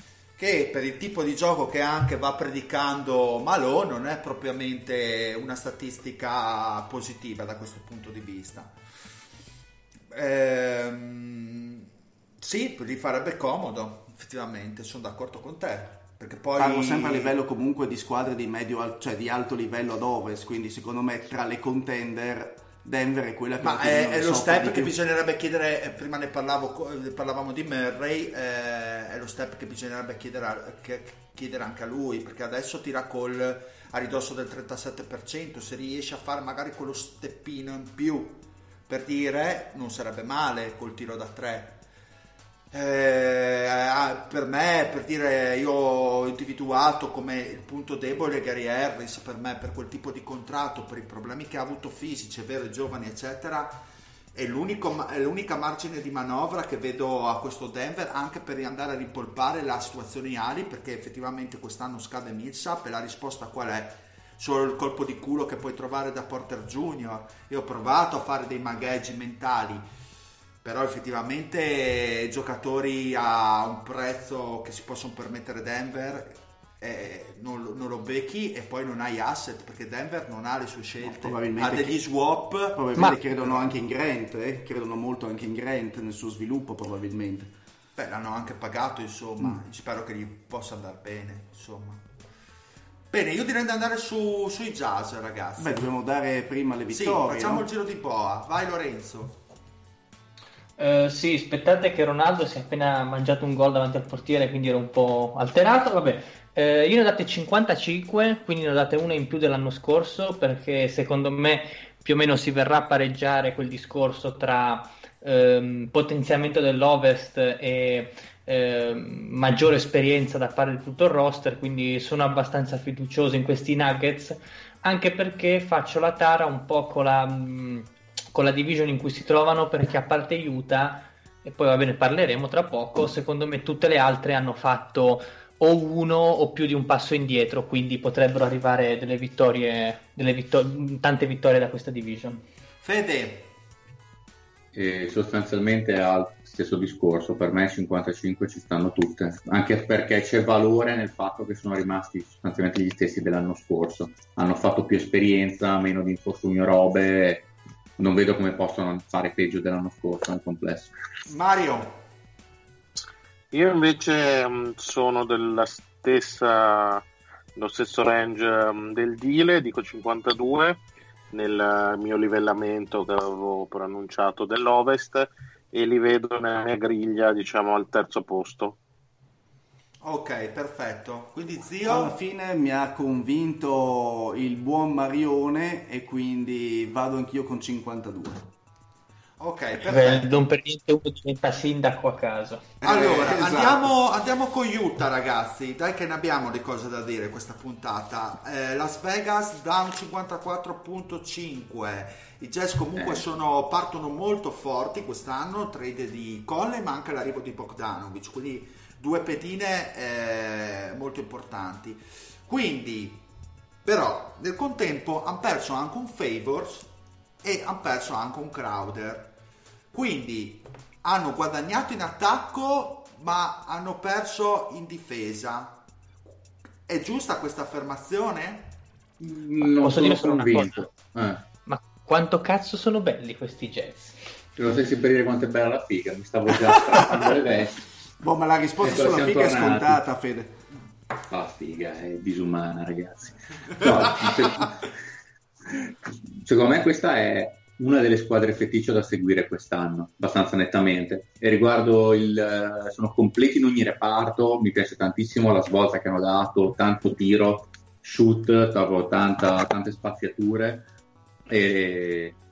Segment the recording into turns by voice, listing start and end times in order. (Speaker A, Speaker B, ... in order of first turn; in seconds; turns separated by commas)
Speaker A: 0.4-8.8, Speaker A: 10.1-11.9, Speaker A: 12.4-17.4, Speaker B: 16.6-24.9, Speaker A: 23.6-41.8, Speaker A: 42.7-53.8, Speaker A: 54.3-69.8, Speaker A: 70.6-83.8, Speaker B: 81.0-82.0, Speaker B: 82.8-87.5, Speaker A: 88.0-92.0, Speaker A: 93.1-95.9, Speaker B: 95.6-97.7, Speaker A: 96.9-99.4, Speaker C: 100.8-142.4, Speaker A: 142.8-143.5, Speaker D: 144.7-160.9, Speaker A: 161.3-162.0, Speaker E: 163.5-178.8, Speaker A: 180.0-182.2, Speaker B: 181.8-188.4, Speaker A: 189.4-190.3, Speaker C: 189.8-192.7, Speaker B: 192.8-193.9, Speaker A: 192.8-213.2, Speaker D: 203.0-203.2, Speaker A: 213.8-219.4, Speaker A: 219.9-225.8, Speaker A: 226.9-228.8, Speaker D: 229.2-231.4, Speaker C: 229.8-230.9, Speaker C: 231.7-234.2, Speaker D: 234.6-237.8, Speaker B: 238.2-240.6, Speaker D: 238.8-240.0, Speaker D: 241.3-244.9, Speaker A: 244.2-244.7, Speaker D: 245.7-260.9, Speaker D: 261.5-262.4